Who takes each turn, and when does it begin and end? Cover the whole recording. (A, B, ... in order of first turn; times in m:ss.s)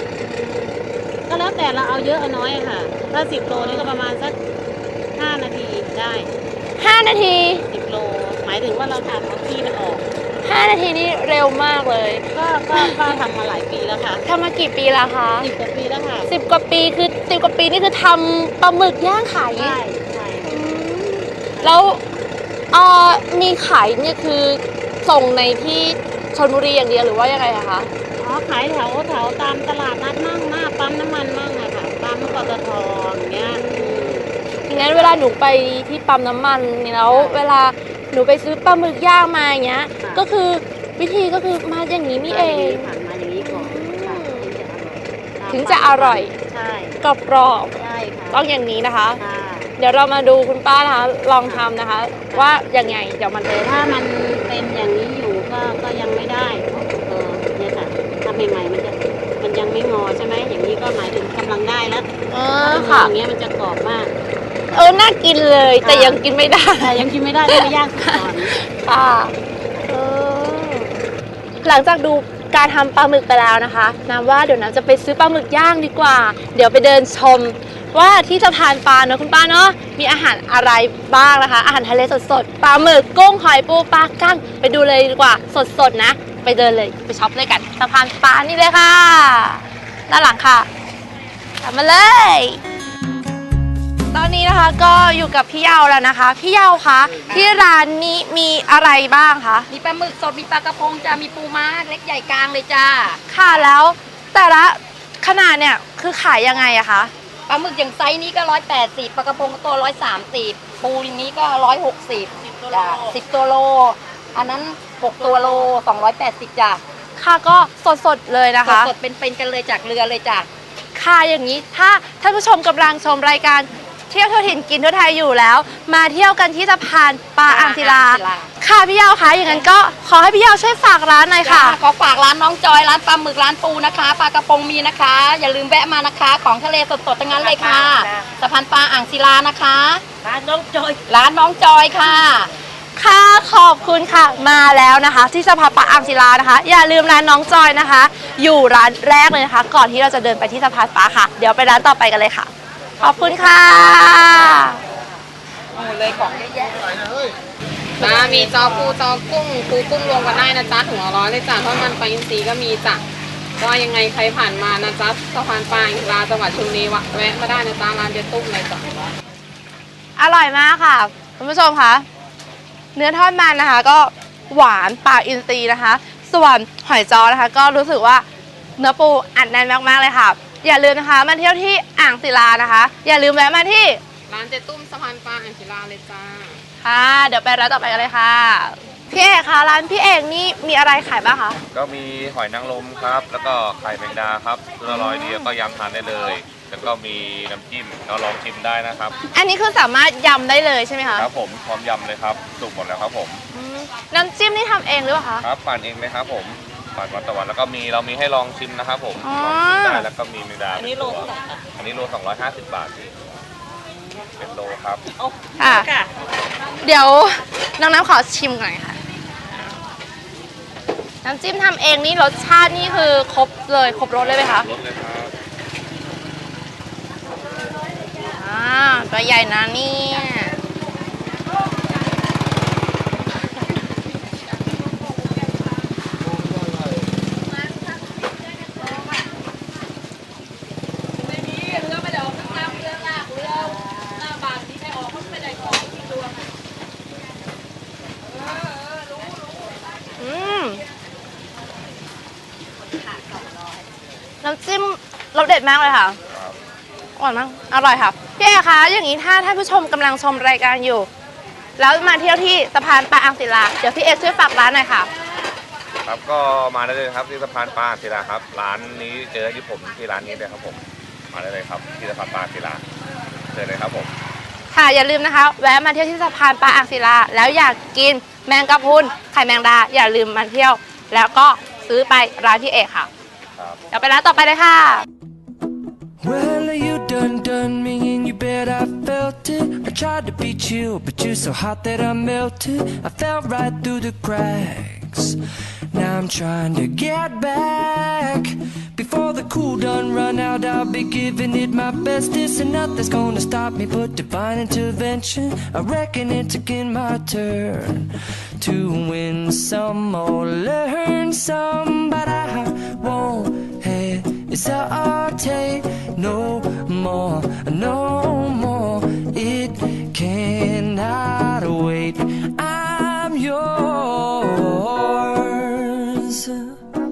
0:00.2-0:00.8 A
0:01.3-0:04.4 A
0:03.5-0:03.9 B
0:05.1-0:06.3 A
0:06.8-0:07.6 B
0:07.7-0:10.0 A
0:10.4-0:13.0 B
0:12.3-0:14.2 A
0:14.2-0:15.5 B
0:15.4-0:16.3 A
0:16.3-0:19.8 B
0:19.6-0:20.7 A
0:20.4-0:22.0 B
0:21.6-0:22.0 A
0:22.7-0:27.9 B
0:28.2-0:34.9 A
0:33.4-0:44.5 B
0:37.1-0:37.4 A
0:42.3-0:47.0 A
0:45.5-0:46.3 B
0:47.0-0:47.8 B
0:47.8-0:48.4 A
0:48.3-0:49.2 B
0:49.2-0:49.7 A
0:49.8-0:53.8 B
0:51.4-0:51.7 A
0:52.3-0:53.0 A
0:53.6-1:02.1 A
1:02.3-1:03.1 B
1:02.6-1:04.1 A
1:04.7-1:09.3 B
1:05.8-1:06.2 A
1:06.8-1:08.5 A
1:09.9-1:10.9 B
1:11.6-1:30.7 B
1:31.6-1:32.6 B
1:34.1-1:39.7 B
1:37.3-1:37.6 C
1:39.7-1:43.2 C
1:43.3-1:47.1 B
1:47.5-1:56.8 C
1:57.2-1:58.9 B
1:58.6-2:00.5 C
2:00.9-2:11.8 B
2:07.4-2:08.5 C
2:11.4-2:22.5 C
2:23.0-2:34.8 B
2:35.8-2:37.1 C
2:38.0-2:43.0 D
2:43.6-2:49.1 D
2:50.2-2:52.0 B
2:52.9-2:58.2 B
2:58.8-3:04.0 B
3:04.3-3:06.6 D
3:06.8-3:11.6 B
3:11.7-3:19.2 E
3:14.9-3:15.5 B
3:19.3-3:21.3 B
3:21.2-3:23.4 E
3:23.5-3:25.4 B
3:25.4-3:33.3 E
3:29.2-3:30.1 B
3:30.8-3:31.2 C
3:34.4-3:35.0 E
3:35.6-3:35.9 B
3:36.8-3:39.0 B
3:41.2-3:44.6 B
3:44.2-3:45.3 E
3:48.3-3:50.5 B
4:10.2-4:10.8 B
4:14.4-4:16.2 B
4:16.3-4:16.6 E
4:17.2-4:21.1 B
4:21.8-4:25.1 B
4:26.0-4:32.8 E
4:33.5-4:34.1 E
4:34.7-4:43.1 B
4:43.6-4:43.8 E
4:43.9-4:45.0 B
4:46.2-4:55.4 F
4:55.9-5:26.8 F